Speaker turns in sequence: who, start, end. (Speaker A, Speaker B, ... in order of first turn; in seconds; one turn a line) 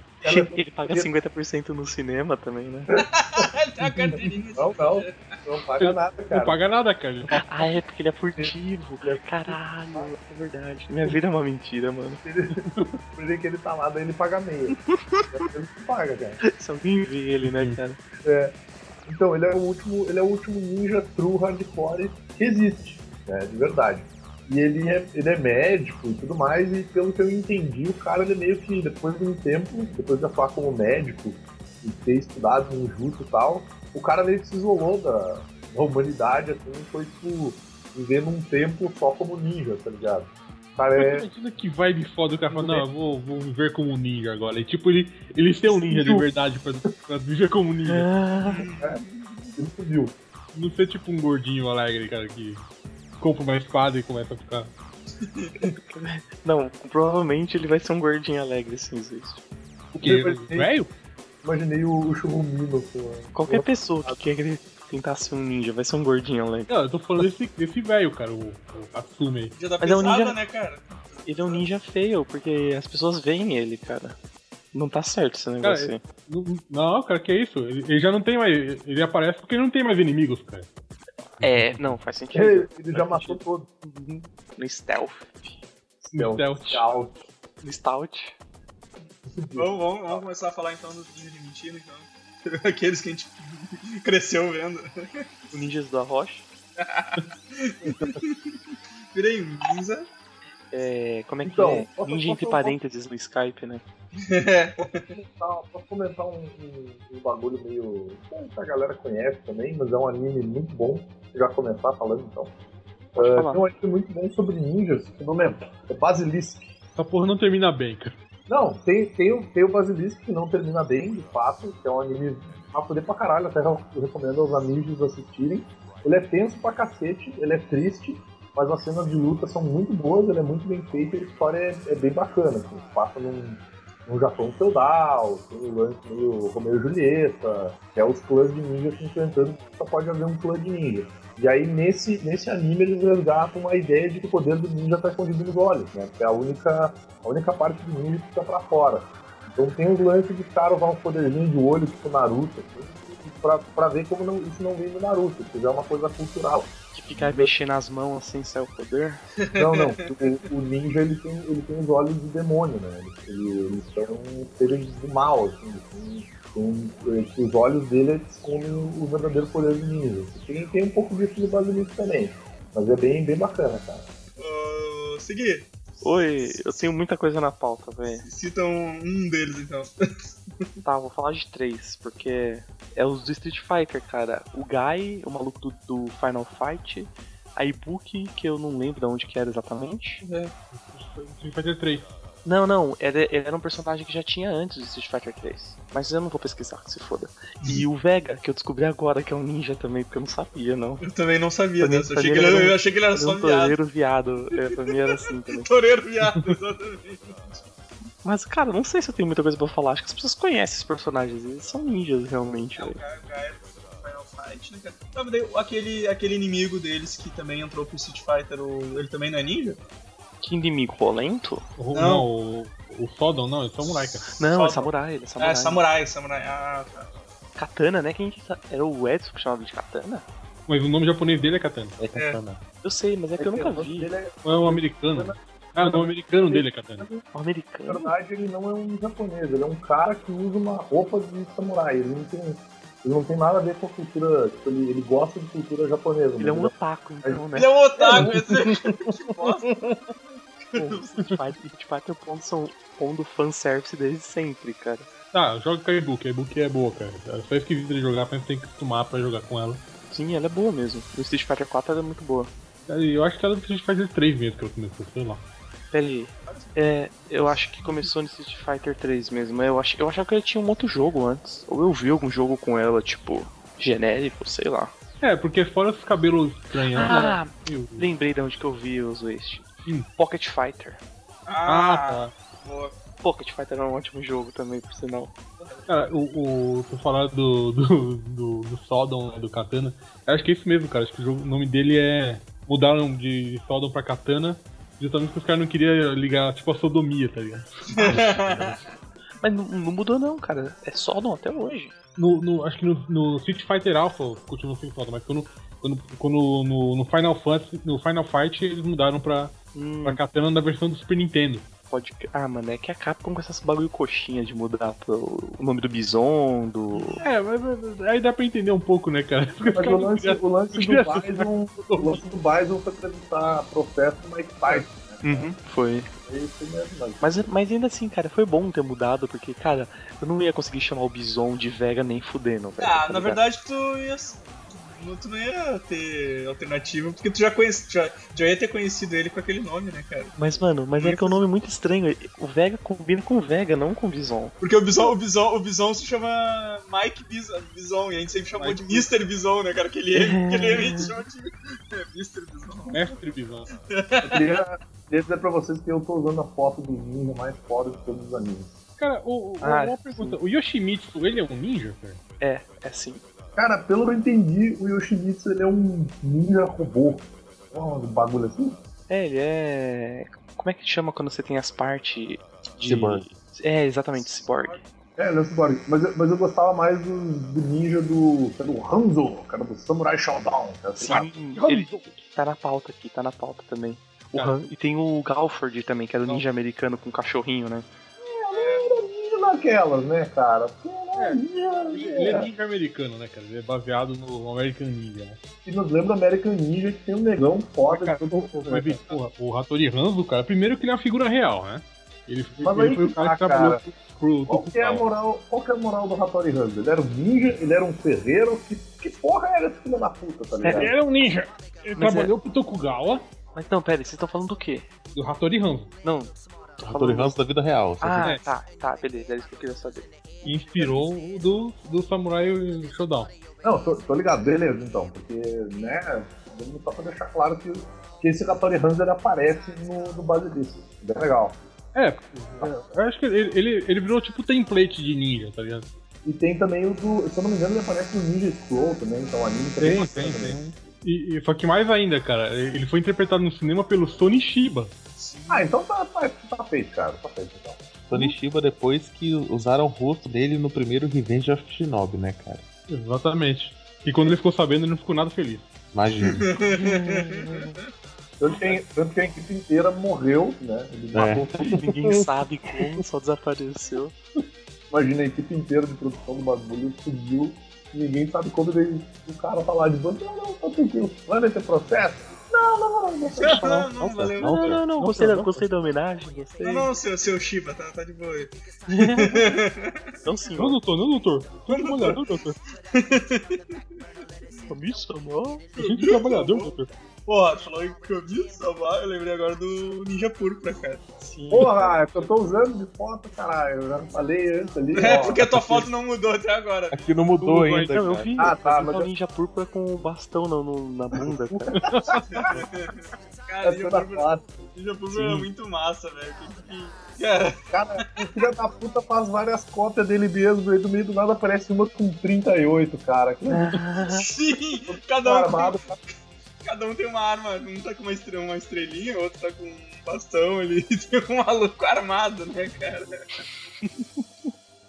Speaker A: 0.2-1.1
Speaker B: 0.2-2.9
Speaker A: 2.9-6.6
Speaker C: 3.2-5.3
Speaker D: 5.8-7.7
Speaker B: 7.4-12.2
Speaker A: 8.4-10.1
Speaker A: 12.2-14.8
Speaker D: 12.6-12.9
Speaker B: 14.7-15.3
Speaker A: 15.3-16.4
Speaker B: 16.4-18.0
Speaker D: 17.4-17.8
Speaker A: 18.2-18.5
Speaker A: 19.1-41.2
Speaker D: 41.0-48.1
Speaker A: 42.5-42.9
Speaker A: 45.7-46.2
Speaker B: 47.9-48.6
Speaker C: 48.4-49.5
Speaker A: 49.6-50.1
Speaker D: 50.5-52.6
Speaker D: 53.2-54.7
Speaker C: 55.2-55.5
Speaker B: 55.6-59.4
Speaker D: 59.9-60.9
Speaker A: 60.0-60.7
Speaker A: 61.4-64.2
Speaker B: 63.3-66.7
Speaker D: 66.7-69.5
Speaker C: 69.5-71.6
Speaker B: 69.8-70.4
Speaker B: 71.3-74.2
Speaker B: 74.7-76.0
Speaker D: 75.6-80.7
Speaker D: 81.4-81.9
Speaker B: 81.4-85.6
Speaker A: 82.3-83.7
Speaker A: 86.0-87.2
Speaker D: 86.1-86.9
Speaker B: 87.6-88.3
Speaker A: 89.3-90.2
Speaker C: 89.5-95.5
Speaker B: 95.5-96.5
Speaker C: 96.8-98.6
Speaker A: 97.8-98.2
Speaker C: 99.1-100.1
Speaker B: 100.7-103.8
Speaker A: 101.4-102.8
Speaker C: 104.2-105.1
Speaker A: 104.8-112.5
Speaker B: 113.2-113.6
Speaker A: 113.2-116.7
Speaker D: 117.0-118.2
Speaker A: 118.5-157.5
Speaker B: 156.9-159.2
Speaker C: 159.4-160.0
Speaker A: 159.5-174.1
Speaker C: 174.4-175.7
Speaker B: 176.0-178.2
Speaker C: 178.1-179.9
Speaker B: 180.8-190.2
Speaker C: 190.2-190.5
Speaker D: 190.7-192.1
Speaker B: 192.4-201.0
Speaker C: 201.0-203.8
Speaker B: 201.8-205.7
Speaker C: 204.5-207.6
Speaker B: 208.2-213.0
Speaker C: 212.8-219.8
Speaker B: 220.4-221.7
Speaker D: 221.8-224.4
Speaker C: 221.9-222.3
Speaker B: 224.4-225.8
Speaker C: 224.5-227.1
Speaker B: 227.6-230.2
Speaker D: 230.7-232.0
Speaker E: 232.0-232.6
Speaker B: 232.8-234.1
Speaker A: 233.4-237.2
Speaker D: 234.4-237.1
Speaker B: 237.3-238.1
Speaker A: 237.9-246.7
Speaker B: 246.4-247.8
Speaker C: 247.5-249.8
Speaker A: 248.0-248.5
Speaker C: 250.7-251.3
Speaker B: 250.7-255.1
Speaker D: 255.3-259.8
Speaker B: 260.1-262.5
Speaker D: 262.9-265.4
Speaker B: 265.9-274.9
Speaker C: 266.4-266.8
Speaker D: 275.2-278.1
Speaker B: 276.9-281.0
Speaker C: 281.5-282.9
Speaker D: 281.6-282.3
Speaker B: 283.2-285.3
Speaker C: 285.6-285.9
Speaker D: 285.9-297.9
Speaker C: 297.9-298.8
Speaker E: 298.0-298.8
Speaker B: 299.4-301.9
Speaker D: 302.2-311.7
Speaker B: 309.7-310.2
Speaker B: 311.9-317.2
Speaker C: 316.9-317.3
Speaker D: 317.2-322.2
Speaker A: 319.6-325.5
Speaker B: 325.2-326.1
Speaker A: 326.2-327.4
Speaker B: 327.2-333.4
Speaker C: 332.8-340.4
Speaker B: 340.4-344.5
Speaker C: 340.9-341.4
Speaker C: 344.6-353.1
Speaker D: 348.6-349.1
Speaker B: 350.1-351.2
Speaker D: 352.9-353.7
Speaker C: 353.9-354.6
Speaker A: 354.2-358.7
Speaker D: 359.0-362.2
Speaker B: 359.6-360.4
Speaker B: 362.4-363.2
Speaker A: 363.6-368.8
Speaker B: 369.1-374.8
Speaker E: 372.8-373.3
Speaker A: 375.2-382.1
Speaker B: 381.0-387.9
Speaker A: 388.2-392.5
Speaker C: 388.5-388.9
Speaker D: 391.2-395.4
Speaker A: 395.6-399.2
Speaker D: 397.9-405.0
Speaker A: 402.6-403.8
Speaker A: 404.5-410.9
Speaker B: 410.6-410.9
Speaker D: 410.6-413.2
Speaker B: 411.9-412.3
Speaker B: 413.5-414.9
Speaker D: 415.1-415.9
Speaker B: 416.0-417.3
Speaker E: 416.8-418.3
Speaker B: 418.0-420.1
Speaker D: 420.4-423.3
Speaker A: 423.6-431.6
Speaker D: 431.9-435.9
Speaker A: 436.2-440.6
Speaker D: 439.8-444.9
Speaker C: 445.2-445.7
Speaker A: 445.5-447.9
Speaker E: 448.1-452.6
Speaker D: 452.9-455.7
Speaker E: 455.9-456.5
Speaker C: 456.2-457.7
Speaker B: 456.7-457.8
Speaker A: 458.4-461.8
Speaker E: 461.1-461.9
Speaker B: 461.7-464.1
Speaker A: 464.9-473.7
Speaker C: 473.4-474.6
Speaker B: 473.4-473.9
Speaker E: 473.9-474.9
Speaker B: 474.4-476.9
Speaker D: 474.9-475.6
Speaker C: 476.6-480.0
Speaker B: 478.9-479.5
Speaker B: 480.2-480.8
Speaker D: 480.6-482.5
Speaker C: 481.7-482.2
Speaker C: 482.9-483.6
Speaker B: 484.7-485.6
Speaker C: 485.8-486.7
Speaker D: 485.8-486.9
Speaker C: 487.3-491.0
Speaker B: 491.2-492.0
Speaker A: 491.5-495.4
Speaker C: 494.9-497.2
Speaker E: 495.5-495.9
Speaker E: 496.9-498.3
Speaker D: 497.4-498.3
Speaker B: 497.9-501.7
Speaker A: 498.4-499.1
Speaker A: 501.2-502.5
Speaker D: 501.7-502.6
Speaker C: 502.3-502.9
Speaker C: 503.5-508.4
Speaker A: 503.6-504.5
Speaker A: 507.7-513.8
Speaker B: 513.5-514.2
Speaker C: 514.1-516.0
Speaker A: 514.9-516.0
Speaker C: 516.6-523.1
Speaker B: 523.8-524.5